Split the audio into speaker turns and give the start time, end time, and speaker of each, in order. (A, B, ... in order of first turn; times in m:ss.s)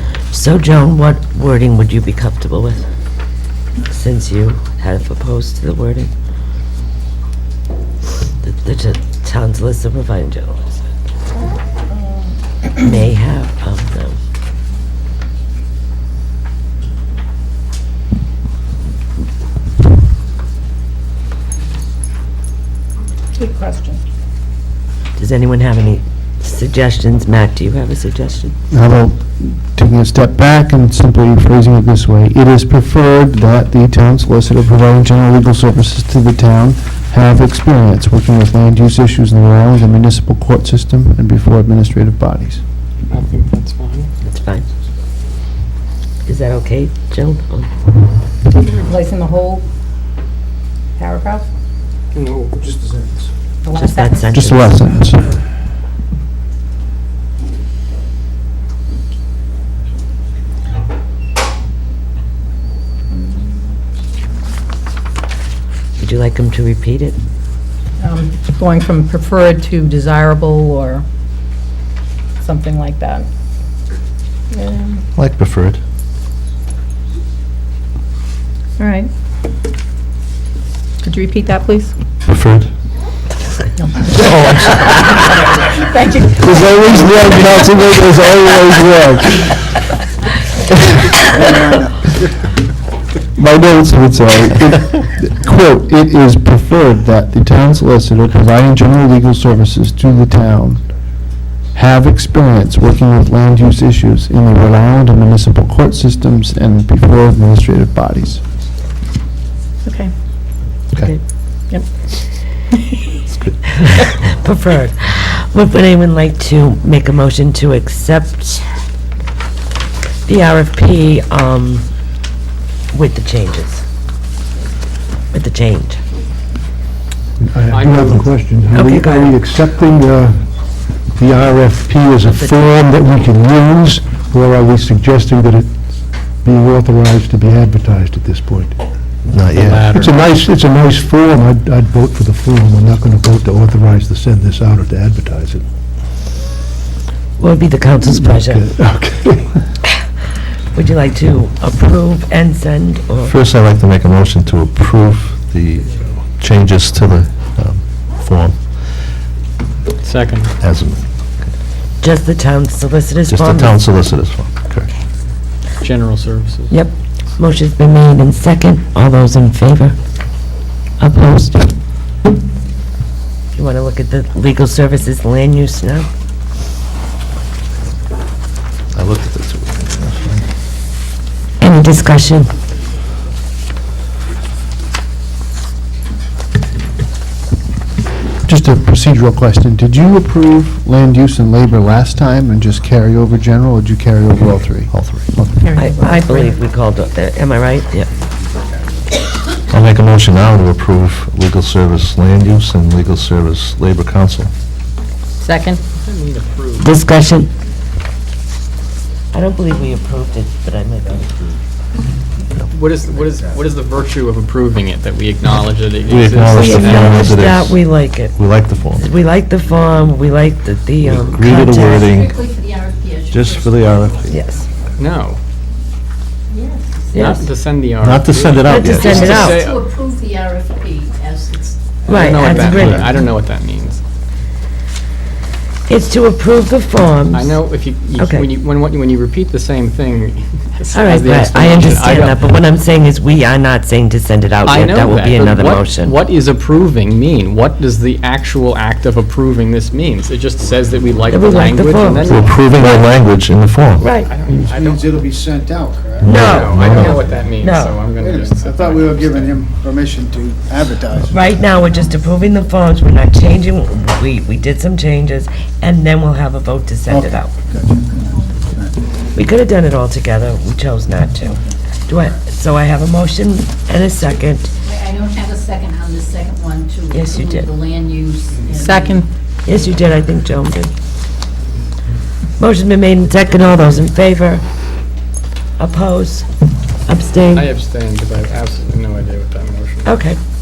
0:00.3-0:02.8 A
0:03.9-0:06.1 A
0:08.4-0:10.8 A
0:12.8-0:14.2 A
0:23.3-0:24.0 B
0:25.2-0:28.6 A
0:28.7-0:42.6 C
0:43.1-0:44.1 D
0:44.2-0:44.7 A
0:46.2-0:47.7 A
0:48.5-0:49.6 B
0:51.0-0:51.4 B
0:52.1-0:52.7 D
0:53.6-0:54.3 B
0:53.7-0:54.8 A
0:54.3-0:55.4 C
1:03.1-1:03.6 B
1:06.0-1:07.2 A
1:08.0-1:11.0 B
1:12.4-1:13.3 B
1:14.5-1:15.0 B
1:15.2-1:15.8 E
1:18.8-1:19.1 B
1:21.0-1:21.9 B
1:22.2-1:22.7 E
1:23.8-1:25.2 B
1:25.7-1:27.2 B
1:26.4-1:29.6 C
1:31.3-1:31.9 F
1:33.4-1:40.8 C
1:41.7-1:48.4 C
1:49.8-1:50.1 B
1:53.6-1:58.6 A
2:00.3-2:01.9 A
2:02.9-2:03.8 A
2:05.3-2:06.0 A
2:07.4-2:10.4 G
2:07.7-2:08.3 D
2:08.7-2:09.4 A
2:11.1-2:15.7 G
2:16.4-2:18.8 G
2:19.3-2:19.9 E
2:19.6-2:20.1 D
2:19.7-2:25.6 G
2:27.4-2:28.7 A
2:28.0-2:29.7 G
2:30.7-2:33.4 A
2:33.2-2:38.6 E
2:40.0-2:40.5 D
2:40.6-2:41.0 E
2:42.0-2:43.8 A
2:43.3-2:44.9 E
2:45.8-2:46.7 D
2:46.7-2:50.0 A
2:51.0-2:51.8 A
2:53.5-2:56.1 A
2:58.9-3:00.4 E
3:01.6-3:02.5 A
3:08.4-3:15.7 C
3:14.9-3:15.3 E
3:15.5-3:16.6 B
3:15.7-3:18.1 A
3:19.7-3:24.5 E
3:25.4-3:25.8 B
3:25.9-3:26.9 D
3:26.8-3:27.5 A
3:29.3-3:31.5 A
3:32.7-3:37.3 D
3:36.1-3:39.1 E
3:36.6-3:38.4 A
3:39.0-3:42.0 A
3:41.0-3:42.4 E
3:41.4-3:44.4 H
3:43.3-3:44.3 E
3:44.3-3:44.7 A
3:45.0-3:45.4 D
3:46.5-3:47.0 H
3:47.1-3:47.5 A
3:47.1-3:49.8 D
3:48.0-3:49.5 E
3:48.7-3:49.6 A
3:48.9-3:52.9 H
3:52.1-3:53.0 A
3:52.1-3:54.0 D
3:52.7-3:53.1 E
3:55.9-3:57.6 A
3:57.3-4:02.4 D
3:58.2-3:58.5 A
4:00.9-4:06.2 A
4:04.6-4:12.9 D
4:11.3-4:12.4 A
4:12.3-4:14.1 E
4:14.0-4:14.4 A
4:14.1-4:15.2 D
4:14.7-4:16.2 F
4:16.2-4:18.0 A
4:16.2-4:17.5 E
4:16.2-4:19.6 D
4:18.2-4:21.6 F
4:21.3-4:27.6 A
4:27.1-4:28.9 F
4:29.3-4:34.7 A
4:34.8-4:39.2 H
4:37.1-4:37.7 A
4:38.7-4:39.3 B
4:39.6-4:40.9 A
4:42.6-4:44.6 A
4:45.8-4:46.5 A
4:47.1-4:47.7 A
4:47.5-4:50.2 D
4:50.0-4:50.4 A